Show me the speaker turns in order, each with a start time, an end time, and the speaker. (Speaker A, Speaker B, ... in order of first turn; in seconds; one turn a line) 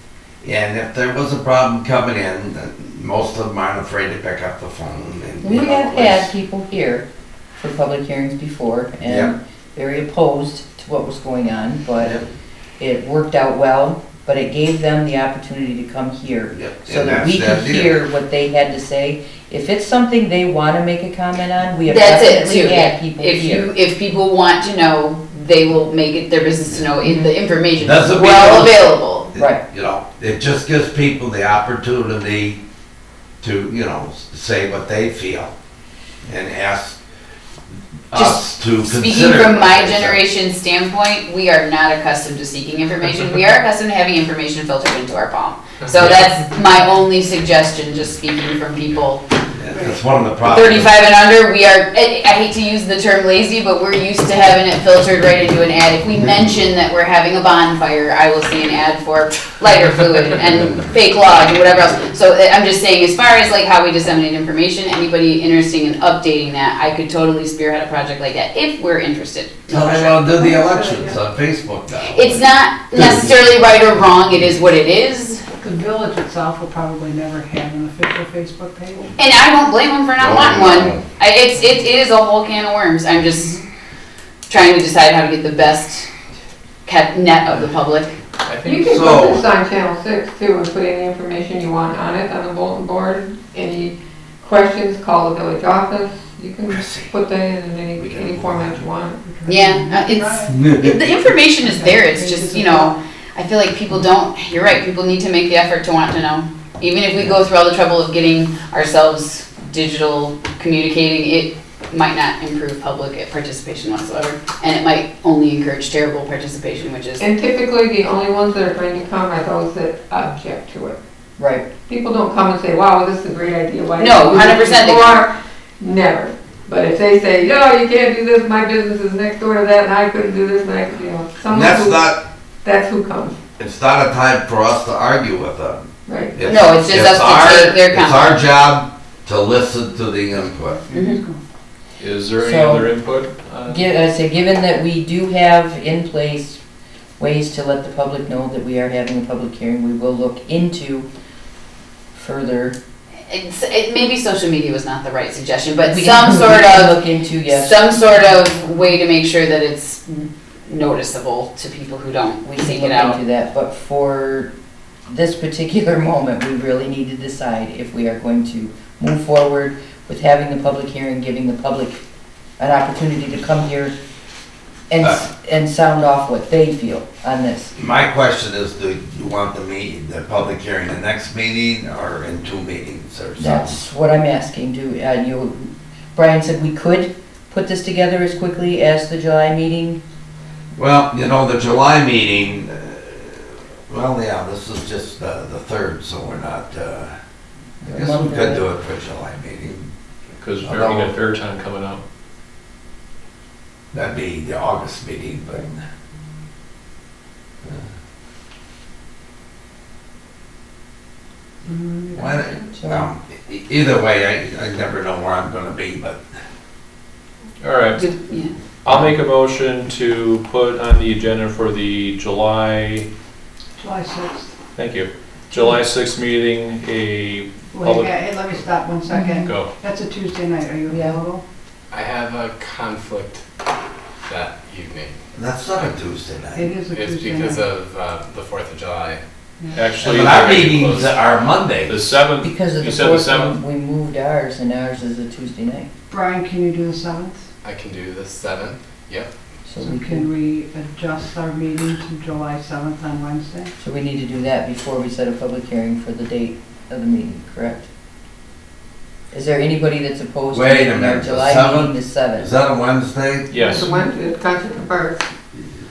Speaker A: 0.4-6.3
Speaker B: 5.4-7.0
Speaker B: 7.6-12.2
Speaker A: 9.1-9.3
Speaker B: 12.8-23.7
Speaker A: 16.5-18.0
Speaker C: 21.9-29.3
Speaker B: 27.0-27.3
Speaker A: 27.8-32.6
Speaker B: 29.4-29.6
Speaker A: 33.4-35.5
Speaker A: 36.2-37.0
Speaker A: 38.1-40.2
Speaker C: 38.1-49.2
Speaker A: 49.6-50.9
Speaker D: 49.7-50.0
Speaker C: 50.5-70.2
Speaker A: 69.7-72.4
Speaker D: 70.3-71.2
Speaker C: 72.0-75.4
Speaker A: 72.9-73.2
Speaker D: 75.6-79.1
Speaker C: 79.2-83.5
Speaker A: 80.2-81.0
Speaker D: 83.3-83.6
Speaker C: 84.5-86.1
Speaker C: 86.8-88.2
Speaker E: 88.4-89.2
Speaker F: 88.6-99.2
Speaker A: 88.9-89.4
Speaker A: 96.7-97.1
Speaker A: 98.0-98.8
Speaker D: 99.2-100.6
Speaker C: 99.5-117.2
Speaker A: 100.5-101.0
Speaker D: 101.6-103.0
Speaker F: 117.2-121.0
Speaker B: 121.4-121.7
Speaker F: 121.9-133.4
Speaker C: 124.0-125.2
Speaker A: 131.5-132.2
Speaker A: 133.6-140.8
Speaker F: 136.1-136.4
Speaker C: 136.4-138.4
Speaker D: 140.3-141.4
Speaker C: 140.9-141.2
Speaker E: 142.0-143.8
Speaker B: 142.4-142.9
Speaker B: 143.7-146.6
Speaker B: 147.2-151.1
Speaker B: 152.1-152.8
Speaker C: 153.3-163.2
Speaker B: 155.8-157.9
Speaker B: 162.4-164.5
Speaker B: 165.1-172.0
Speaker B: 172.6-173.9
Speaker B: 174.9-177.7
Speaker A: 177.8-183.8
Speaker B: 183.4-190.0
Speaker A: 190.8-197.1
Speaker B: 197.8-198.6
Speaker A: 197.9-199.9
Speaker E: 200.4-202.0
Speaker A: 200.6-201.2
Speaker A: 203.9-205.8
Speaker D: 211.7-212.5
Speaker A: 212.1-216.2
Speaker B: 212.8-213.1
Speaker E: 217.6-218.0
Speaker C: 218.0-218.5
Speaker E: 218.8-223.1
Speaker D: 223.8-224.5
Speaker E: 224.8-228.6
Speaker D: 227.7-231.4
Speaker E: 229.4-229.7
Speaker B: 230.9-231.2
Speaker G: 231.9-233.4
Speaker G: 234.2-235.1
Speaker A: 235.4-236.7
Speaker D: 236.5-237.7
Speaker G: 236.9-239.2
Speaker D: 239.6-239.8
Speaker E: 239.7-241.2
Speaker A: 240.0-242.1
Speaker E: 241.8-243.6
Speaker B: 242.4-245.9
Speaker D: 246.1-247.4
Speaker G: 247.6-249.3
Speaker B: 249.7-250.3
Speaker D: 249.8-253.7
Speaker B: 253.8-257.9
Speaker B: 259.3-262.5
Speaker A: 260.5-263.5
Speaker E: 263.5-263.9
Speaker F: 263.5-265.2